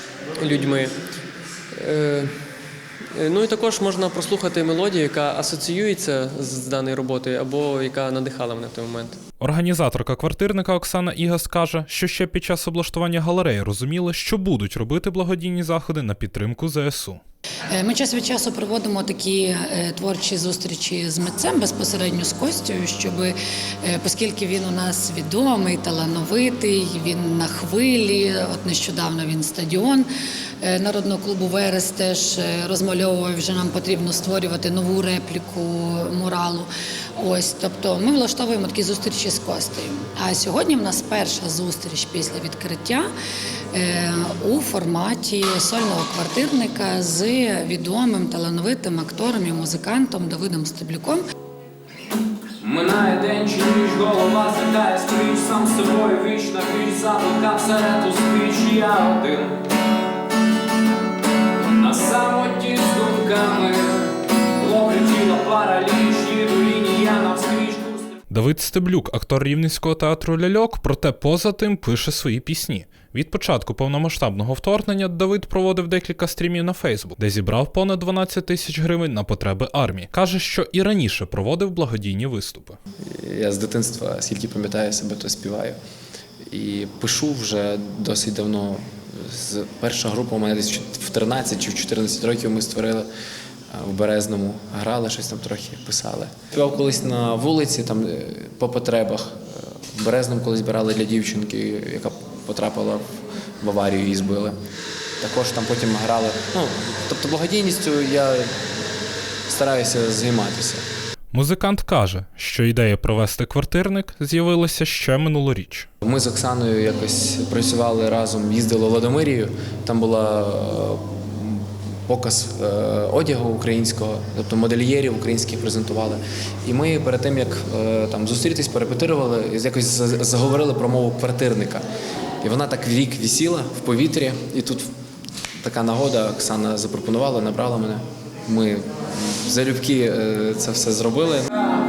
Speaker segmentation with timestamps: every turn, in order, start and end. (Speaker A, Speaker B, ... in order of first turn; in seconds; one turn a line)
Speaker A: 0.4-0.9
Speaker A: 1.7-2.3
Speaker A: 3.1-9.2
Speaker B: 9.4-17.2
Speaker C: 17.7-30.1
Speaker C: 30.6-43.1
Speaker C: 43.7-51.2
Speaker D: 52.6-59.6
Speaker D: 61.8-68.1
Speaker B: 68.3-82.8
Speaker E: 83.1-85.8
Speaker E: 86.5-93.1
Speaker E: 93.7-103.0
Speaker E: 103.6-104.6
Speaker E: 105.2-108.6
Speaker E: 109.5-110.8
Speaker B: 111.3-115.9
Speaker E: 116.0-131.8
Speaker E: 132.4-134.9
Speaker E: 135.6-141.5